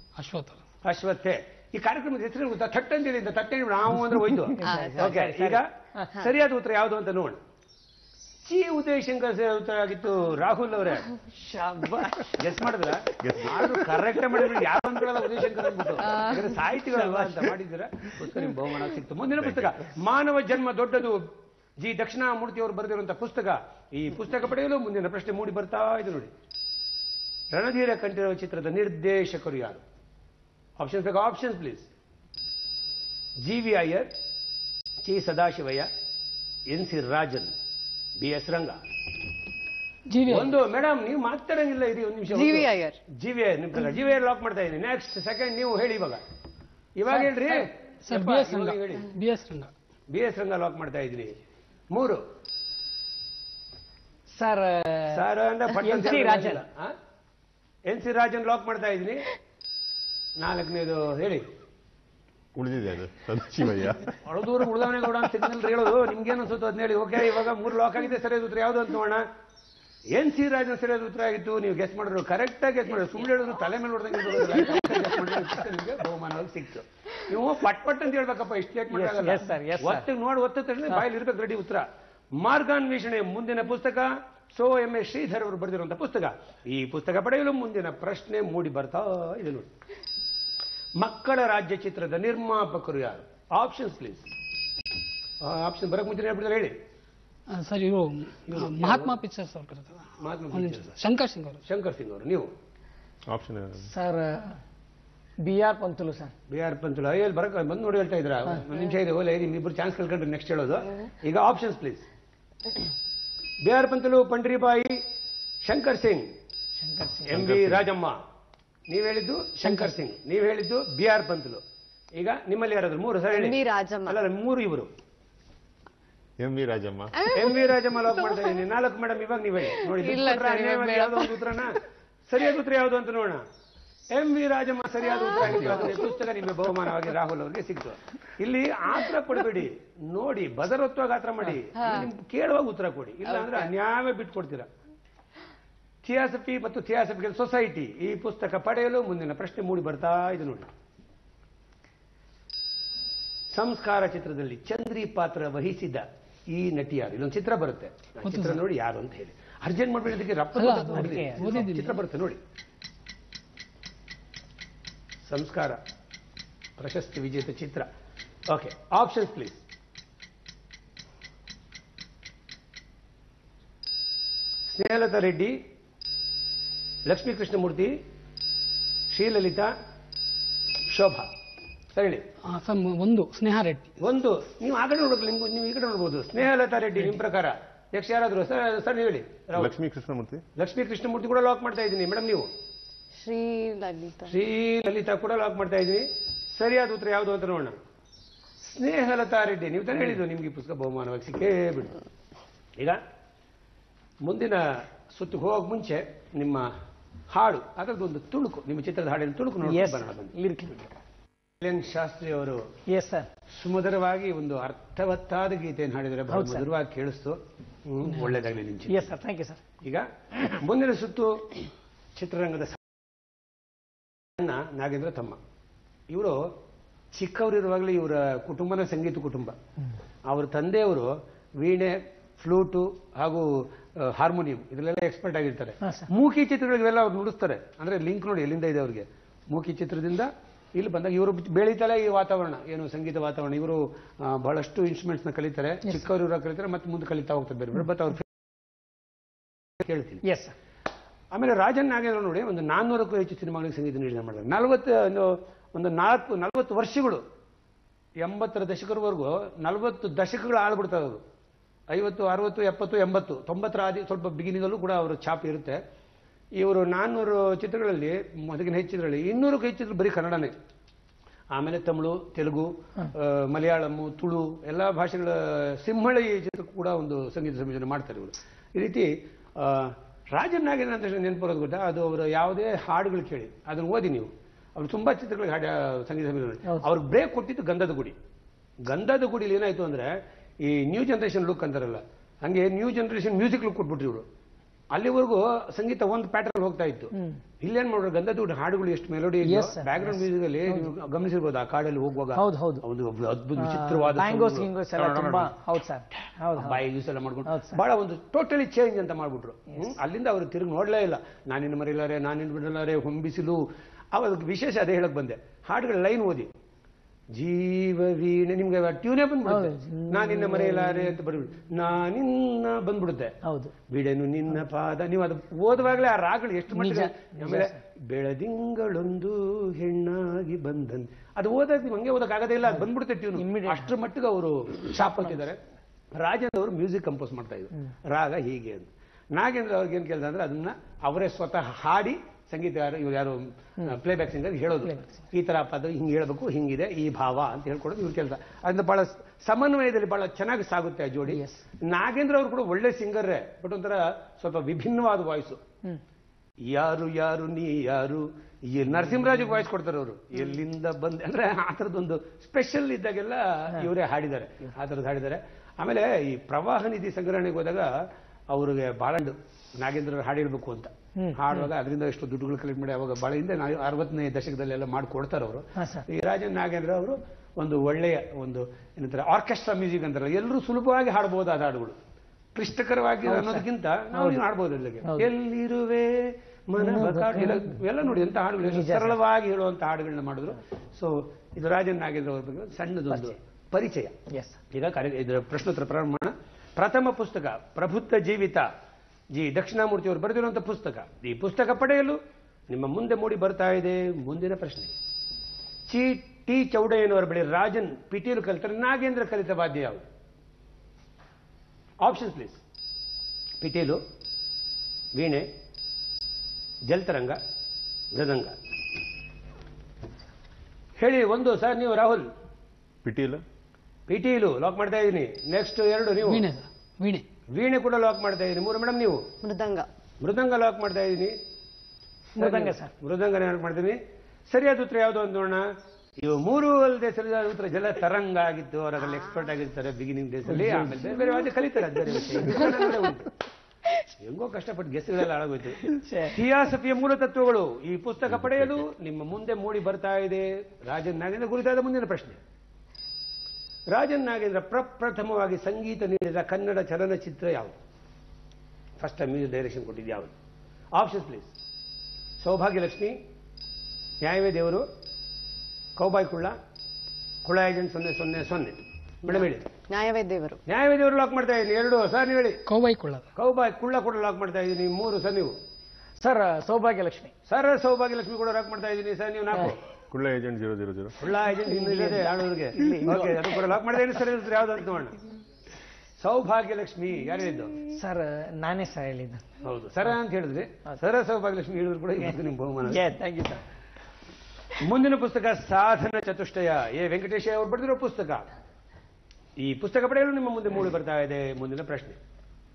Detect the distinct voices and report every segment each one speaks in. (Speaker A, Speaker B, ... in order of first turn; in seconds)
Speaker A: 0.1-0.6, 40.1-40.5, 48.0-49.7, 97.5-101.6, 158.2-158.6, 160.5-162.0, 182.4-183.9, 218.1-218.3, 426.2-427.2, 472.6-473.3
Speaker B: 0.8-5.7, 6.2-7.4, 8.4-11.1, 12.3-26.3, 27.5-29.8, 30.8-31.9, 33.4-34.1, 35.0-35.9, 36.7-37.5, 38.2-38.8, 40.3-46.2, 47.0-49.1, 50.1-51.4, 51.9-52.2, 55.1-56.9, 57.8-59.3, 60.4-61.5, 64.2-69.3, 70.1-89.7, 91.0-94.2, 95.4-96.8, 98.5-99.2, 100.2-100.9, 101.7-102.5, 106.5-112.0, 113.6-115.0, 115.6-116.3, 117.3-118.2, 118.9-121.6, 122.1-124.9, 127.3-133.4, 134.1-144.7, 146.0-150.7, 153.5-162.4, 165.2-165.8, 166.8-167.9, 168.5-169.6, 174.7-175.6, 177.1-178.0, 179.1-179.7, 180.9-181.3, 181.9-182.2, 184.0-189.7, 190.6-192.5, 194.3-197.8, 198.6-201.9, 204.2-206.7, 207.3-210.3, 211.6-212.7, 213.5-219.1, 219.8-221.6, 222.2-222.8, 224.4-225.4, 226.1-226.5, 227.1-229.6, 230.2-248.3, 249.8-250.2, 251.3-257.2, 258.2-261.2, 261.9-265.8, 266.6-270.5, 271.5-288.1, 288.9-294.2, 294.9-305.5, 306.6-316.5, 317.3-323.4, 323.9-335.6, 336.1-355.6, 356.6-367.9, 368.5-382.0, 382.5-394.1, 394.7-398.7, 399.3-404.9, 405.9-410.1, 412.0-412.6, 413.6-414.0, 415.1-415.5, 416.9-417.4, 418.1-418.6, 421.0-422.3, 424.1-426.4, 427.5-429.2, 430.2-431.4, 432.4-434.0, 434.5-443.3, 444.2-452.4, 453.9-457.8, 459.0-460.3, 460.9-461.5, 462.4-463.1, 464.2-464.8, 465.9-466.6, 467.4-469.6, 470.7-472.6, 473.4-475.6, 477.5-479.8, 481.2-485.2, 486.2-487.9, 489.6-493.0, 494.8-498.5, 499.6-502.2
Speaker C: 4.4-6.2, 11.4-12.4, 54.3-56.6, 78.9-80.0, 103.9-104.6, 105.4-106.3, 116.8-117.5, 160.9-161.4, 209.6-210.9, 212.9-213.3, 216.3-216.7, 218.9-219.6, 235.8-236.1, 250.2-250.5, 297.1-297.4, 299.4-300.9, 302.3-302.8, 303.6-306.8, 307.4-307.8, 319.5-321.2, 323.4-323.7, 326.7-327.8, 333.4-333.9, 344.8-345.1, 351.3-351.6, 371.1-371.6, 375.8-376.1, 383.3-384.4, 385.0-385.3, 386.8-387.8, 388.6-389.2, 393.1-393.4, 394.3-394.6, 432.3-432.9, 440.5-441.1, 445.9-446.4, 476.2-477.3, 481.7-483.5, 487.9-489.4, 492.9-493.6
Speaker D: 4.6-5.1, 16.0-16.6, 42.3-43.0, 123.3-124.2, 127.2-128.6, 129.8-131.6, 141.7-142.0, 193.2-194.3, 429.4-429.9, 469.2-470.6
Speaker E: 13.2-14.7, 19.4-19.9, 62.5-64.2, 103.3-103.9, 117.3-117.9, 126.4-127.2, 189.5-190.4, 423.0-423.4, 448.3-448.8, 480.1-481.1